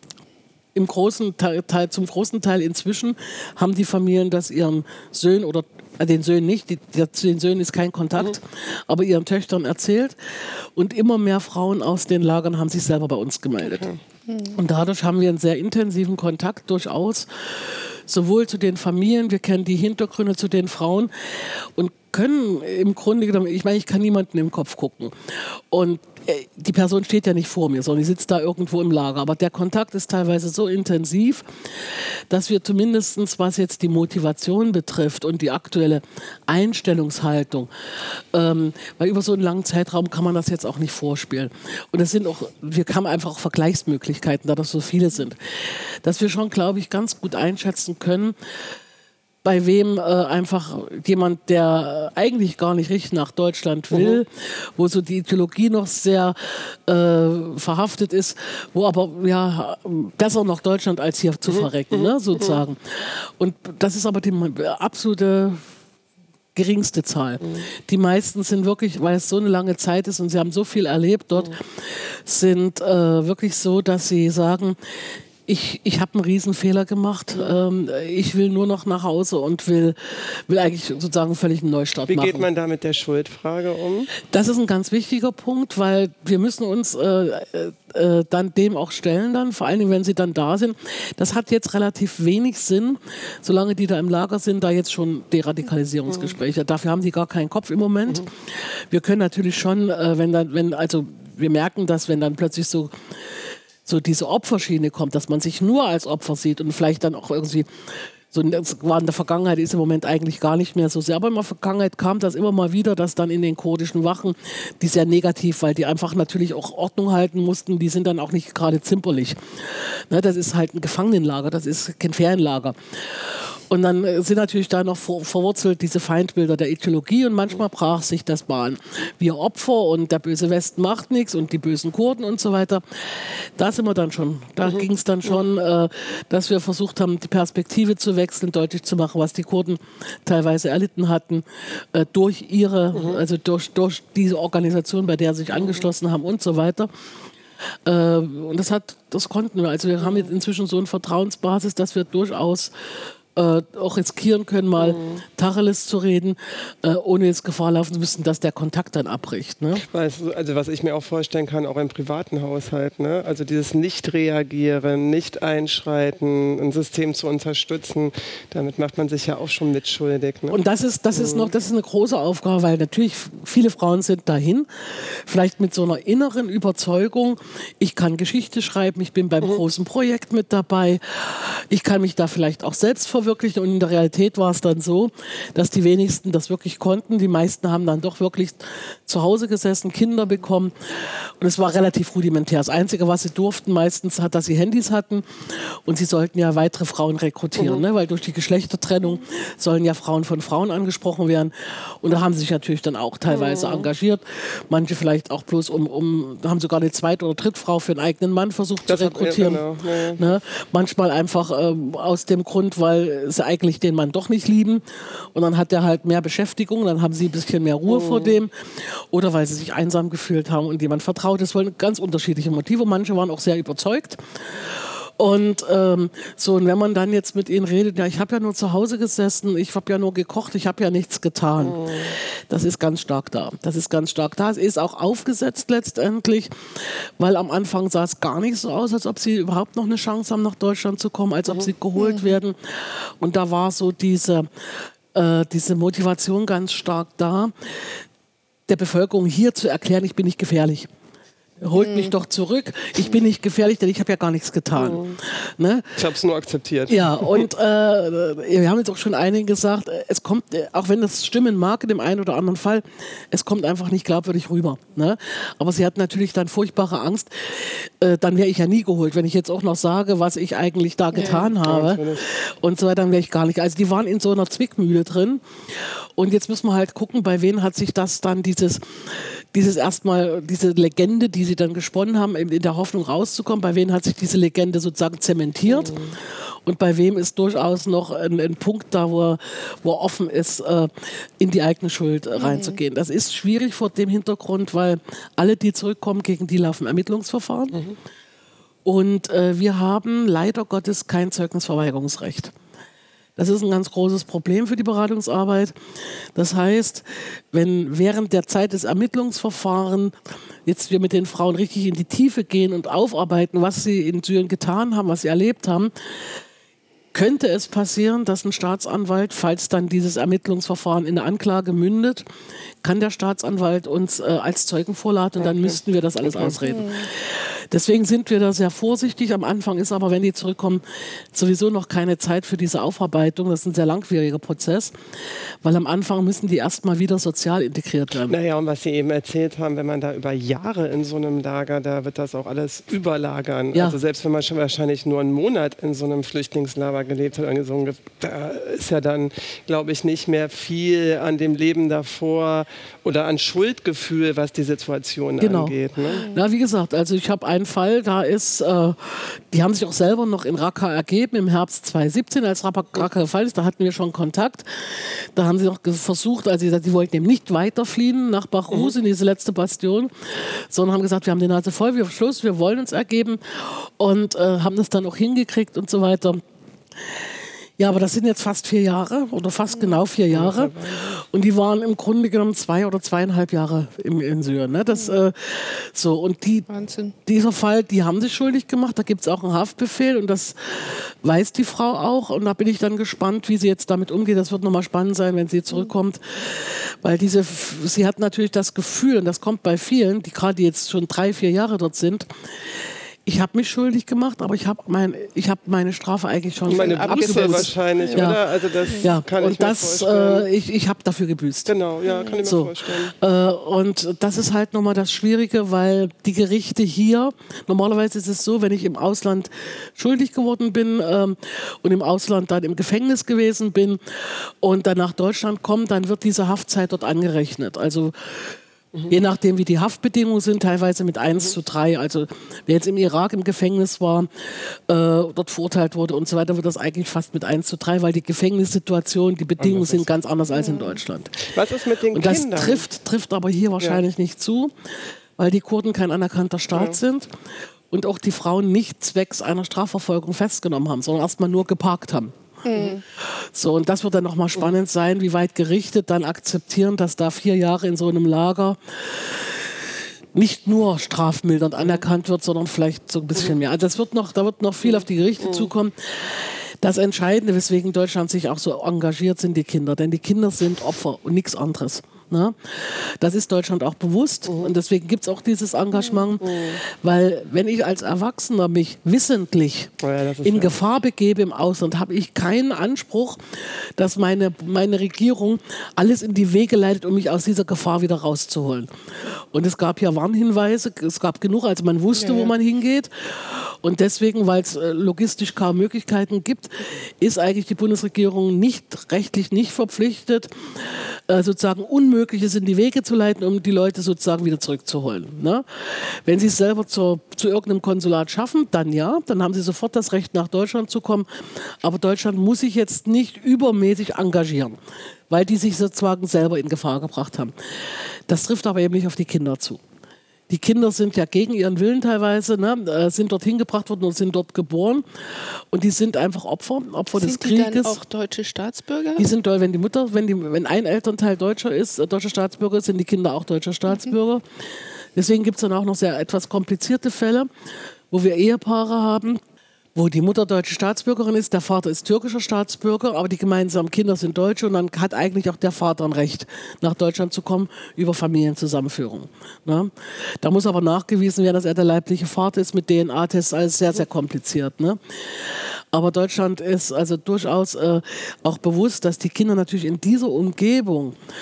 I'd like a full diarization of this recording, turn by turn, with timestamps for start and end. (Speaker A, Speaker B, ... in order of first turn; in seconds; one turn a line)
Speaker A: 0.7-13.9
Speaker B: 13.6-14.0
Speaker C: 14.3-14.6
Speaker A: 14.5-48.3
Speaker A: 49.4-65.6
Speaker B: 53.9-54.2
Speaker A: 66.5-82.5
Speaker B: 82.1-84.1
Speaker A: 84.2-146.9
Speaker B: 142.9-143.2
Speaker A: 147.8-159.8
Speaker B: 154.8-155.2
Speaker B: 159.7-170.6
Speaker A: 170.5-244.5
Speaker B: 171.2-171.5
Speaker B: 203.3-203.9
Speaker B: 208.9-210.2
Speaker B: 217.9-218.3
Speaker B: 231.7-232.1
Speaker C: 242.0-242.3
Speaker A: 245.1-248.0
Speaker A: 248.7-250.9
Speaker A: 251.6-256.0
Speaker C: 251.8-252.1
Speaker B: 254.8-255.2
Speaker B: 256.0-257.4
Speaker A: 256.9-297.8
Speaker C: 271.1-271.5
Speaker B: 271.3-272.2
Speaker B: 285.7-286.1
Speaker C: 292.4-292.8
Speaker A: 298.8-302.5
Speaker A: 303.4-316.4
Speaker A: 317.1-322.2
Speaker A: 322.8-334.9
Speaker B: 325.4-326.6
Speaker C: 326.6-327.1
Speaker A: 335.6-338.4
Speaker B: 338.3-356.2
Speaker A: 343.7-344.0
Speaker A: 355.4-376.4
Speaker C: 356.1-356.4
Speaker A: 377.8-386.7
Speaker B: 380.3-381.2
Speaker C: 386.7-387.1
Speaker A: 387.2-411.7
Speaker C: 406.6-408.3
Speaker B: 406.7-410.5
Speaker B: 411.7-413.1
Speaker C: 412.1-412.4
Speaker A: 412.4-428.6
Speaker A: 429.1-441.5
Speaker B: 439.6-440.1
Speaker C: 440.5-441.0
Speaker B: 441.4-442.8
Speaker A: 442.1-444.7
Speaker A: 445.4-447.3
Speaker A: 447.9-452.3
Speaker C: 452.6-453.0
Speaker A: 453.1-514.8
Speaker B: 476.4-476.8
Speaker B: 480.0-480.7
Speaker A: 515.3-519.8
Speaker A: 520.5-528.0
Speaker C: 527.1-529.3
Speaker A: 529.2-537.5
Speaker A: 538.1-539.4
Speaker A: 539.9-561.2